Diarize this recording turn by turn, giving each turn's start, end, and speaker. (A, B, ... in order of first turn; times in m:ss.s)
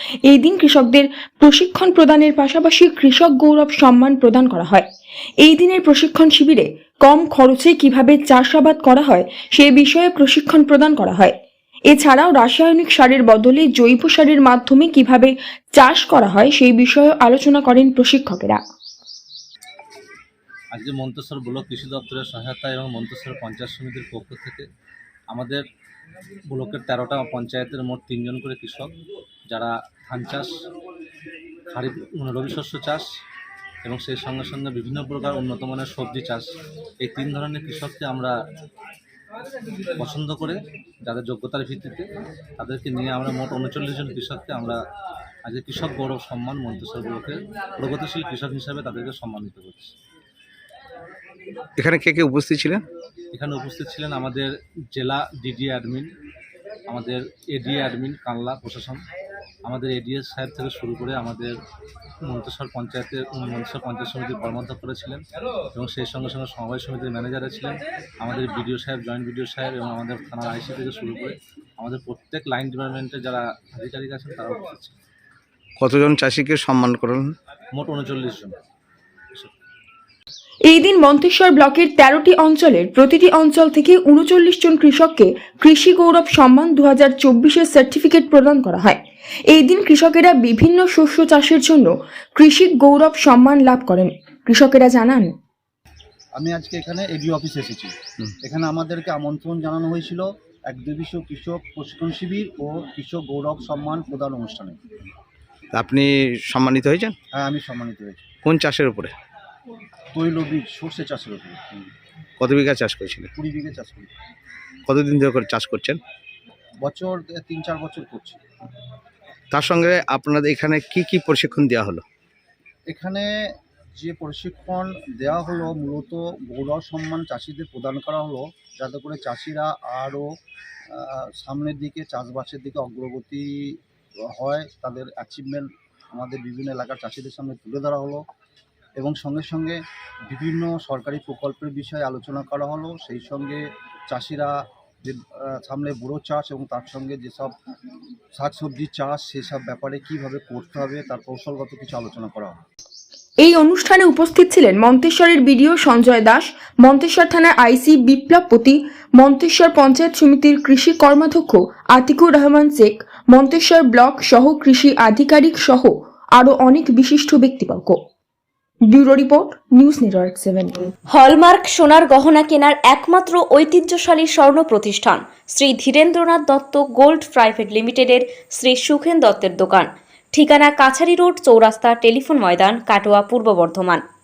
0:00.3-0:04.9 A
0:05.4-0:11.4 A
0:11.9-0:18.6 A
0:20.7-0:24.7 B
0:25.3-0:25.6 B
0:26.5-0:28.9 B
0:29.5-0:30.5 B
0:31.7-0:33.0 B
0:33.8-0:36.5 B
0:37.0-0:38.4 B
0:40.0-0:42.0 B
0:42.6-0:44.8 B
0:45.4-0:49.9 B
0:51.8-0:52.8 C
0:53.3-0:56.1 B
0:56.9-0:59.0 B
0:59.6-1:01.6 B
1:02.2-1:05.2 B
1:05.8-1:14.9 B
1:15.8-1:17.4 C
1:17.7-1:18.6 B
1:20.7-1:35.3 A
1:36.4-1:44.8 D
1:45.7-1:47.2 C
1:47.3-1:48.3 D
1:48.4-1:49.1 C
1:50.1-1:51.9 D
1:52.4-1:53.3 C
1:53.3-1:54.1 D
1:54.9-1:56.0 C
1:56.8-1:58.4 D
1:59.5-2:02.0 C
2:02.9-2:03.3 D
2:04.0-2:10.3 D
2:10.9-2:13.8 D
2:14.3-2:18.2 D
2:19.0-2:27.5 D
2:28.3-2:32.6 D
2:33.4-2:48.0 A
2:48.9-2:50.9 A
2:51.1-3:04.0 E